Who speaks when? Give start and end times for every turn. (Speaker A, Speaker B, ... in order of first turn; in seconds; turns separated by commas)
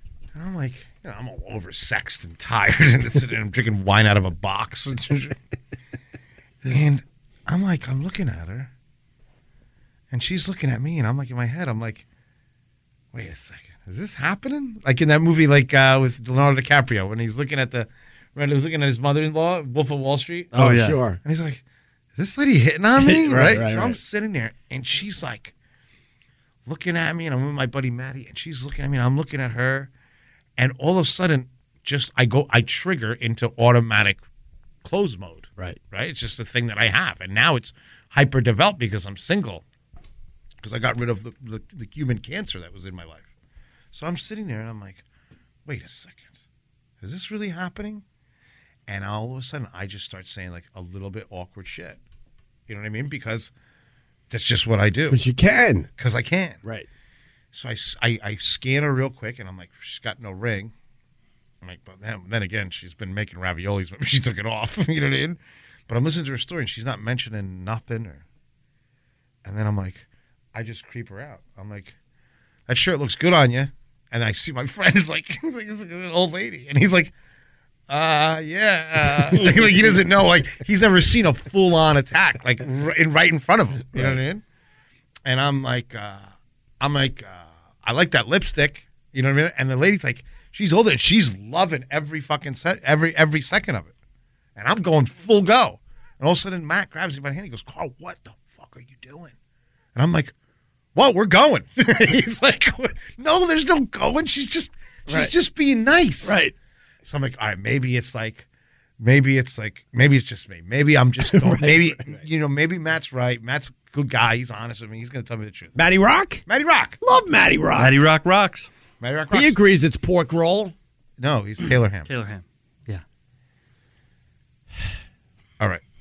Speaker A: 0.3-5.4, Speaker A: 6.6-8.7, Speaker A: 10.1-12.0, Speaker A: 13.1-20.6, Speaker B: 20.5-21.2, Speaker C: 20.6-21.0, Speaker A: 21.2-21.6, Speaker A: 22.1-25.5, Speaker B: 23.0-24.0, Speaker A: 26.6-29.9, Speaker A: 30.6-34.2, Speaker A: 34.8-39.6, Speaker A: 40.6-43.3, Speaker A: 43.9-45.0, Speaker A: 45.6-46.3, Speaker A: 47.0-48.0, Speaker A: 48.9-52.0, Speaker A: 52.7-53.5, Speaker A: 54.3-55.2, Speaker B: 55.1-55.9, Speaker A: 56.0-56.6, Speaker A: 57.5-60.7, Speaker A: 61.6-68.2, Speaker A: 69.4-71.9, Speaker A: 72.7-77.1, Speaker A: 77.9-84.4, Speaker A: 85.2-93.9, Speaker A: 94.5-99.3, Speaker A: 99.9-100.3, Speaker A: 100.9-106.4, Speaker B: 105.1-105.3, Speaker B: 106.2-106.5, Speaker A: 107.0-108.4, Speaker A: 109.0-115.7, Speaker B: 111.2-112.2, Speaker B: 115.8-116.4, Speaker A: 116.5-117.0, Speaker B: 117.0-118.0, Speaker C: 117.8-118.7, Speaker A: 119.0-119.6, Speaker B: 119.3-120.7, Speaker A: 121.2-122.1, Speaker C: 122.0-123.0